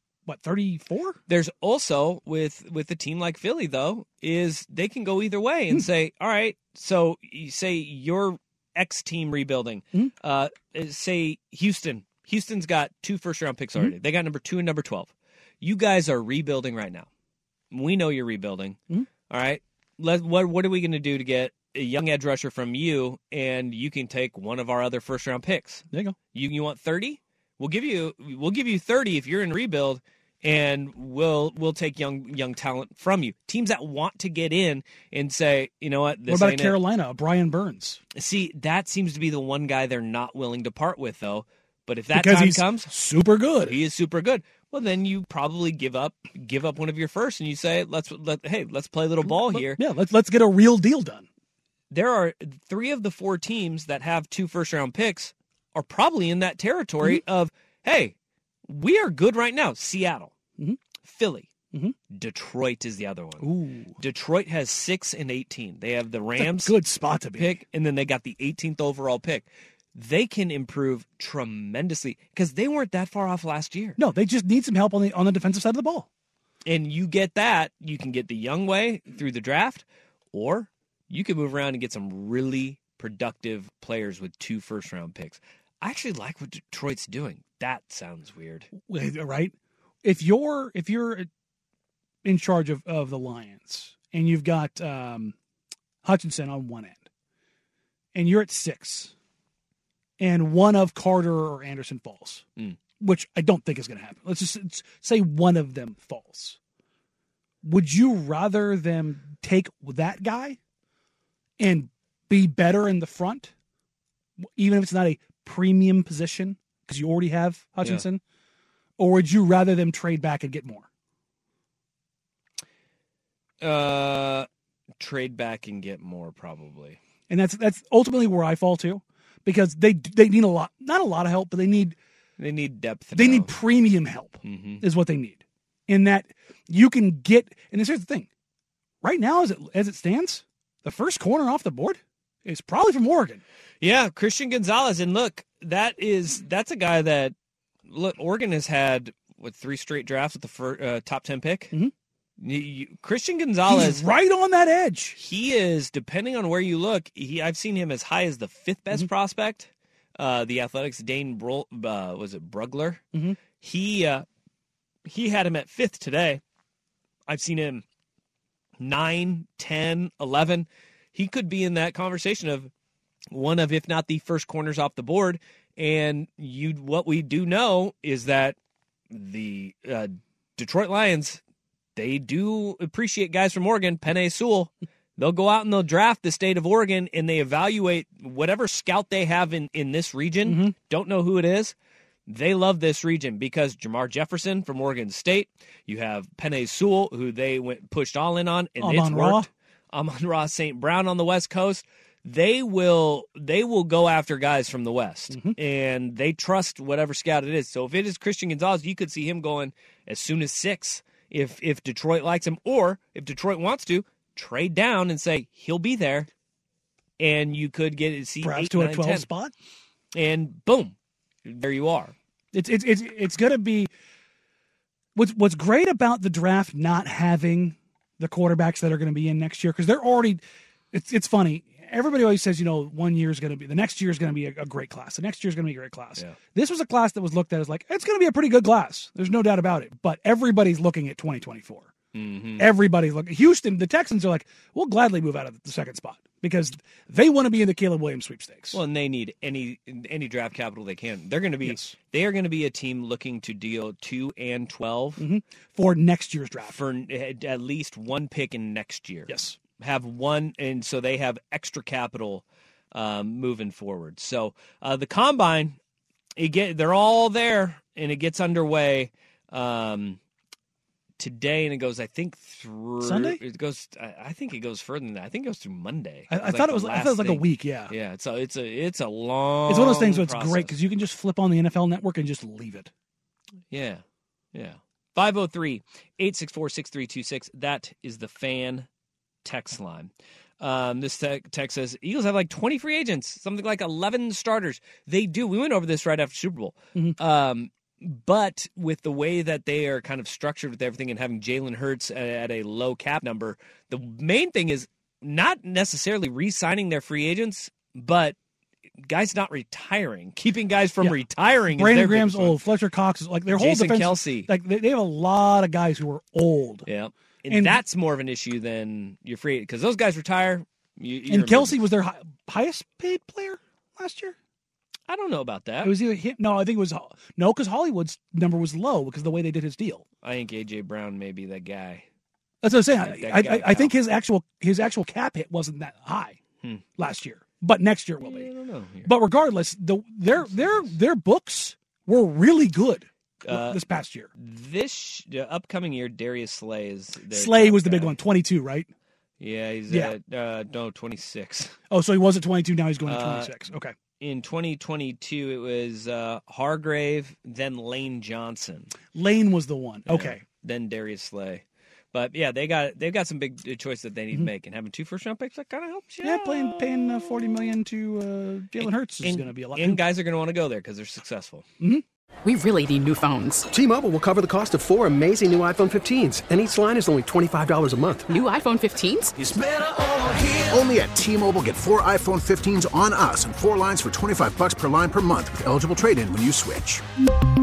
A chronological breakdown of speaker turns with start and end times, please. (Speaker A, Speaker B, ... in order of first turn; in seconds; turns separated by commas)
Speaker A: 0.3-1.2, Speaker B: 1.3-17.1, Speaker B: 17.7-36.8, Speaker A: 36.3-38.0, Speaker B: 38.1-42.9, Speaker A: 42.1-43.8, Speaker B: 43.6-49.8, Speaker A: 49.3-51.2, Speaker B: 51.9-58.1, Speaker B: 58.7-60.3, Speaker B: 61.0-61.5, Speaker B: 62.1-63.5, Speaker A: 63.4-64.0, Speaker B: 64.0-66.7, Speaker A: 66.4-67.6, Speaker B: 67.3-74.0, Speaker A: 74.0-76.1, Speaker B: 76.6-88.7, Speaker A: 88.9-89.5, Speaker A: 90.0-91.3, Speaker A: 92.2-95.3, Speaker A: 96.0-97.0, Speaker A: 98.1-99.1, Speaker A: 100.2-102.5, Speaker A: 103.0-106.6, Speaker A: 107.6-110.6, Speaker A: 111.6-113.5, Speaker A: 114.6-118.2, Speaker A: 119.0-120.8, Speaker B: 123.6-124.5, Speaker B: 125.0-127.0, Speaker A: 127.3-131.9, Speaker B: 132.4-133.5, Speaker A: 133.1-138.3, Speaker B: 134.4-134.8, Speaker A: 139.0-143.4, Speaker B: 143.8-147.3, Speaker B: 147.9-151.7, Speaker B: 152.4-154.0, Speaker A: 153.7-155.2, Speaker B: 155.2-163.0, Speaker B: 163.5-164.2, Speaker B: 165.1-166.4, Speaker B: 167.3-167.8, Speaker B: 168.8-172.7, Speaker B: 173.3-178.6, Speaker B: 179.1-181.4, Speaker B: 181.9-191.7, Speaker A: 190.4-190.7, Speaker B: 192.3-216.3, Speaker A: 198.8-199.5, Speaker A: 205.3-205.6, Speaker B: 217.2-219.3, Speaker A: 218.4-219.5, Speaker B: 220.1-220.9, Speaker B: 221.4-222.1, Speaker A: 222.5-223.9, Speaker A: 225.1-241.9, Speaker B: 242.1-242.6, Speaker A: 242.6-248.8, Speaker B: 248.7-255.2, Speaker A: 251.6-251.9, Speaker A: 255.2-256.8, Speaker B: 256.6-265.8, Speaker A: 259.3-259.6, Speaker B: 266.4-270.2, Speaker B: 271.2-280.7, Speaker A: 273.0-273.4, Speaker A: 276.3-277.9, Speaker A: 279.7-282.9, Speaker B: 283.7-284.0, Speaker B: 284.5-288.9, Speaker B: 289.4-308.3, Speaker B: 309.0-312.6, Speaker A: 311.7-316.9, Speaker B: 313.5-314.5, Speaker B: 316.9-321.8, Speaker A: 317.5-317.8, Speaker A: 321.3-324.3, Speaker B: 325.1-325.9, Speaker A: 325.8-330.0, Speaker B: 330.2-332.0, Speaker A: 332.6-336.4, Speaker B: 333.0-333.9, Speaker A: 337.0-338.5, Speaker B: 338.2-339.1, Speaker A: 339.0-344.3, Speaker B: 340.4-340.9, Speaker B: 343.4-343.8, Speaker B: 344.4-348.1, Speaker A: 347.3-348.9, Speaker B: 349.4-351.7, Speaker A: 349.9-350.1, Speaker A: 351.9-353.9, Speaker B: 353.1-353.5, Speaker B: 354.2-358.9, Speaker A: 359.1-360.4, Speaker B: 360.1-366.8, Speaker A: 366.2-370.0, Speaker B: 368.8-371.6, Speaker C: 372.4-373.7, Speaker D: 373.7-378.3, Speaker C: 378.3-379.4, Speaker E: 379.4-387.0